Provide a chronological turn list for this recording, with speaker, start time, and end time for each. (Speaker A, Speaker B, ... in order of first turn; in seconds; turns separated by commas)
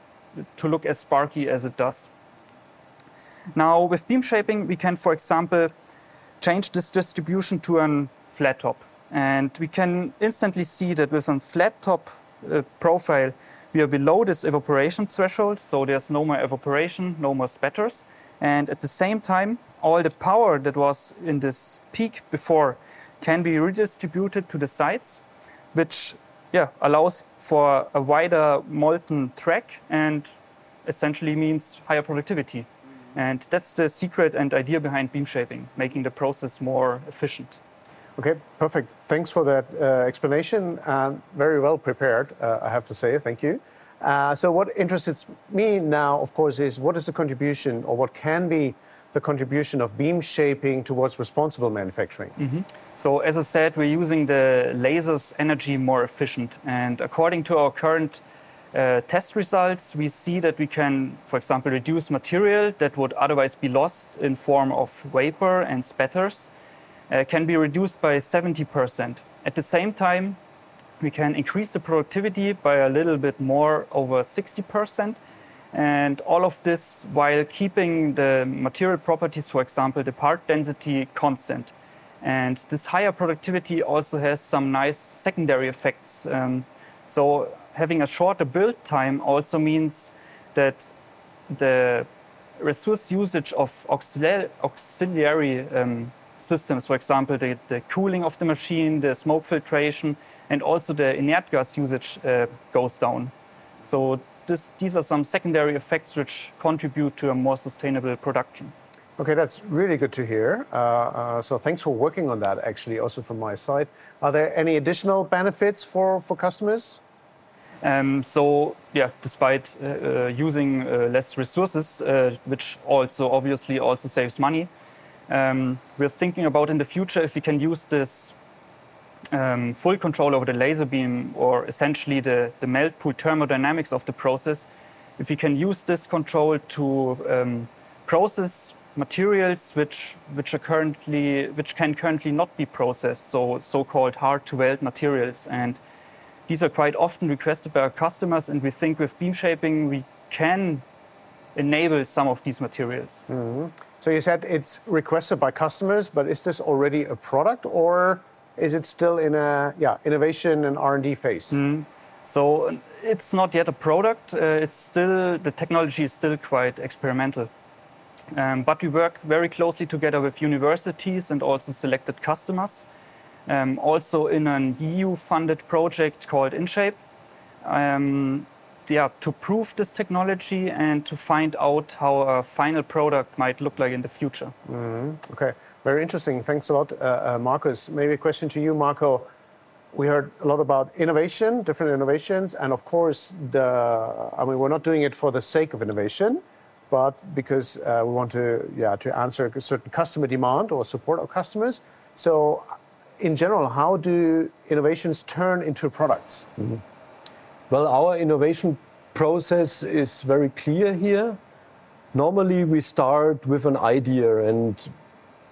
Speaker A: 0.4-2.1, Speaker A: 3.5-5.7, Speaker A: 6.4-25.2, Speaker A: 25.7-37.6, Speaker B: 38.2-52.3, Speaker A: 52.4-58.2, Speaker A: 58.7-66.5, Speaker A: 67.1-70.4, Speaker A: 71.0-75.2, Speaker A: 75.7-90.9, Speaker A: 91.5-108.7, Speaker B: 109.2-117.0, Speaker A: 117.8-124.7, Speaker A: 125.3-128.3, Speaker A: 129.3-134.7, Speaker A: 135.2-145.8, Speaker A: 146.5-150.8, Speaker A: 151.5-153.2, Speaker B: 153.3-161.6, Speaker A: 161.5-167.5, Speaker A: 168.3-172.8, Speaker A: 173.4-177.0, Speaker A: 177.6-184.5, Speaker B: 184.7-189.3, Speaker B: 189.9-202.7, Speaker B: 203.2-206.5, Speaker C: 207.7-211.4, Speaker C: 212.1-214.9